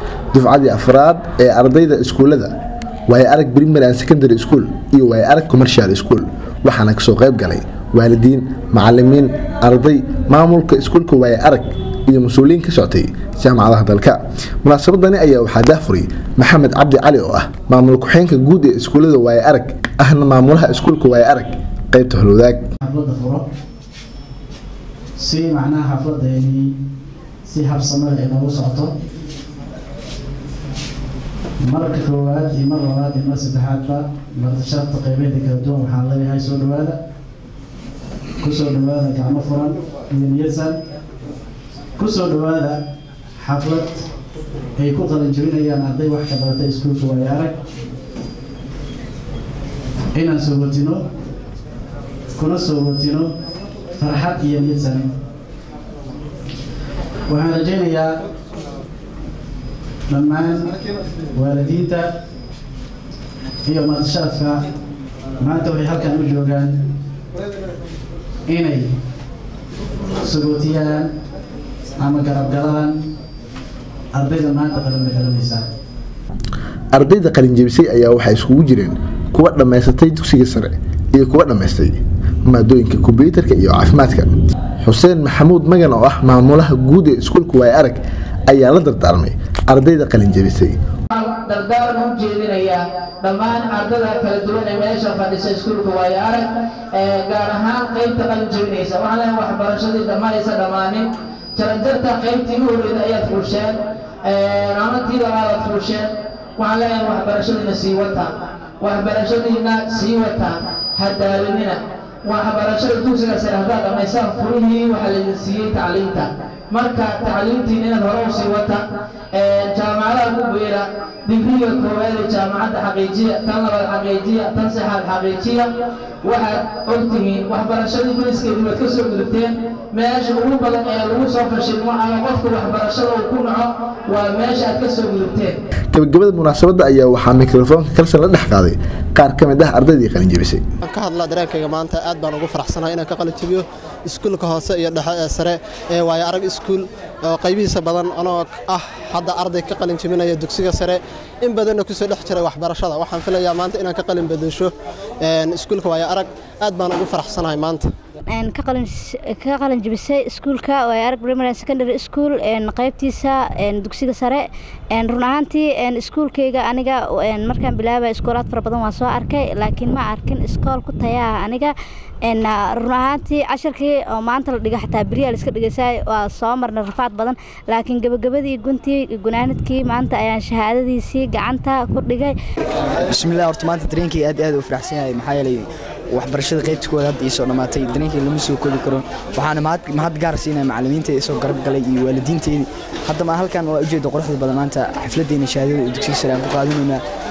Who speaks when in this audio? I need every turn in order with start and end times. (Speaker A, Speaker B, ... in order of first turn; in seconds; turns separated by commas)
Speaker A: 0.3-2.5, Speaker A: 3.1-22.6, Speaker B: 22.8-23.5, Speaker B: 25.2-26.8, Speaker B: 27.4-28.9, Speaker B: 31.6-37.0, Speaker B: 38.4-40.8, Speaker B: 42.0-42.8, Speaker B: 43.4-44.1, Speaker B: 44.8-47.5, Speaker B: 50.1-51.1, Speaker B: 52.3-53.3, Speaker B: 54.0-55.1, Speaker B: 57.3-58.2, Speaker B: 60.1-60.8, Speaker B: 61.3-62.2, Speaker B: 63.6-64.7, Speaker B: 65.4-66.9, Speaker B: 68.5-69.0, Speaker B: 70.2-71.1, Speaker B: 72.0-73.1, Speaker B: 74.1-75.7, Speaker A: 76.9-90.8, Speaker C: 91.1-125.7, Speaker C: 126.2-135.6, Speaker A: 135.9-140.6, Speaker D: 140.8-157.9, Speaker E: 158.3-182.3, Speaker F: 183.0-197.0